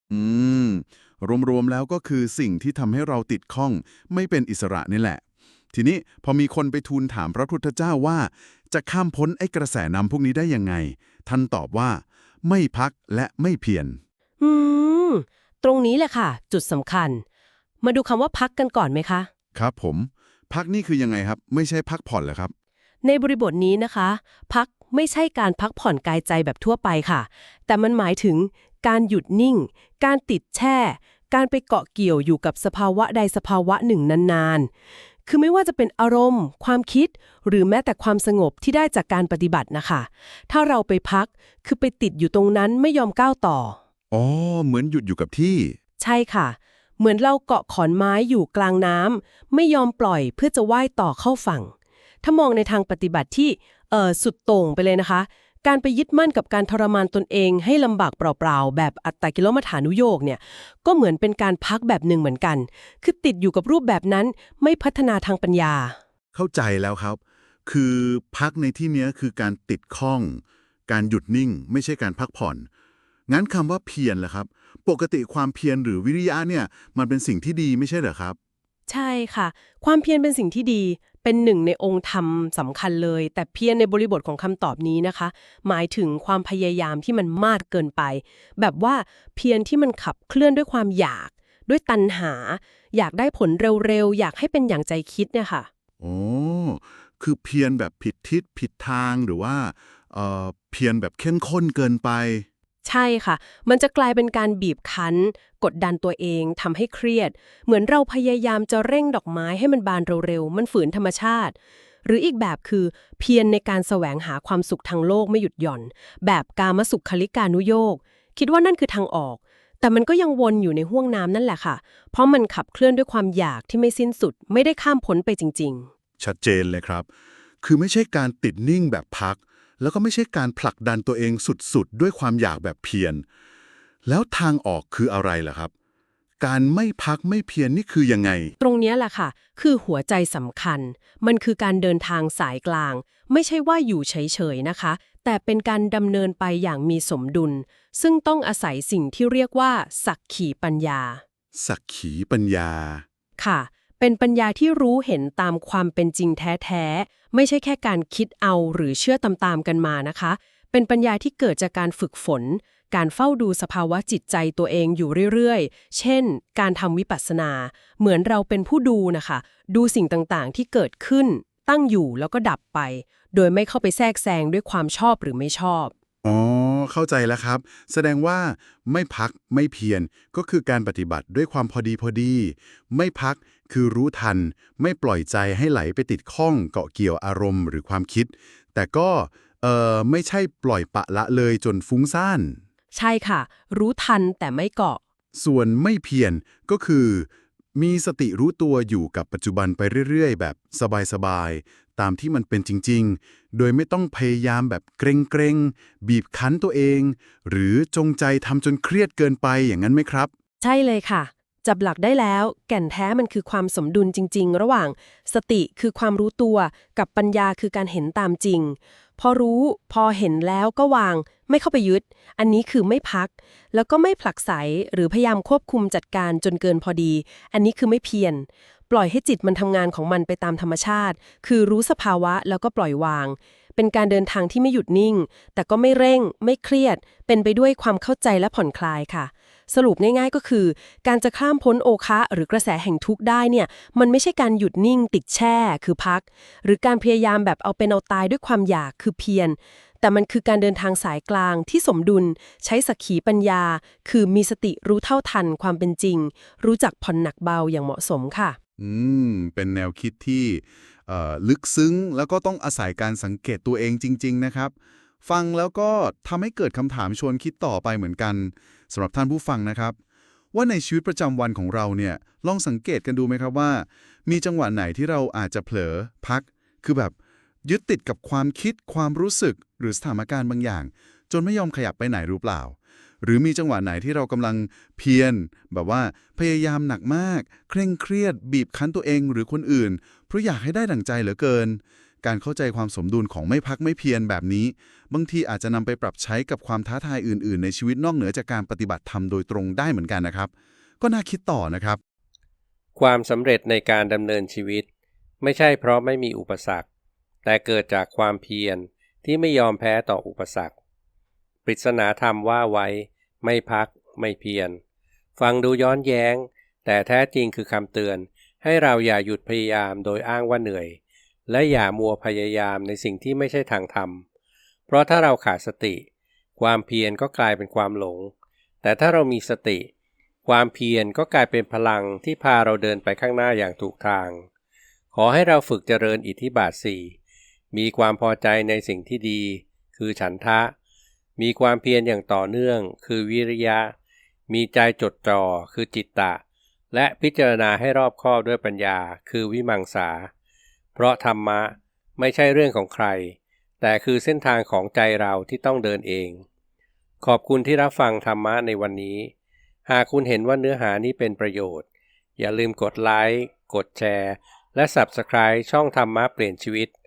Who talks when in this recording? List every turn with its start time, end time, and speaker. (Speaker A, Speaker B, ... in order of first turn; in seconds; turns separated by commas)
Speaker A: 0.1-5.2, Speaker A: 5.7-14.0, Speaker B: 14.4-17.2, Speaker B: 17.8-19.3, Speaker A: 19.5-22.5, Speaker B: 23.0-34.7, Speaker B: 35.2-43.8, Speaker A: 44.1-45.8, Speaker B: 46.0-51.7, Speaker B: 52.2-66.0, Speaker A: 66.3-72.7, Speaker A: 73.3-78.4, Speaker B: 78.9-95.7, Speaker A: 96.0-102.5, Speaker B: 102.8-125.9, Speaker A: 126.2-127.1, Speaker A: 127.6-133.2, Speaker A: 134.0-135.7, Speaker A: 136.4-138.5, Speaker B: 138.6-151.2, Speaker A: 151.5-153.0, Speaker B: 153.4-175.9, Speaker A: 176.2-192.6, Speaker B: 192.9-195.0, Speaker A: 195.3-210.3, Speaker B: 210.6-258.6, Speaker A: 258.8-264.7, Speaker A: 265.2-270.0, Speaker A: 270.5-302.0, Speaker C: 302.9-304.9, Speaker C: 305.4-306.8, Speaker C: 307.4-310.7, Speaker C: 311.6-314.8, Speaker C: 315.4-324.2, Speaker C: 324.9-326.1, Speaker C: 326.6-328.3, Speaker C: 328.8-329.9, Speaker C: 330.4-334.5, Speaker C: 335.1-337.1, Speaker C: 337.7-340.7, Speaker C: 341.4-343.9, Speaker C: 344.5-346.4, Speaker C: 346.9-350.3, Speaker C: 350.9-356.4, Speaker C: 357.2-359.3, Speaker C: 359.9-361.8, Speaker C: 362.4-366.9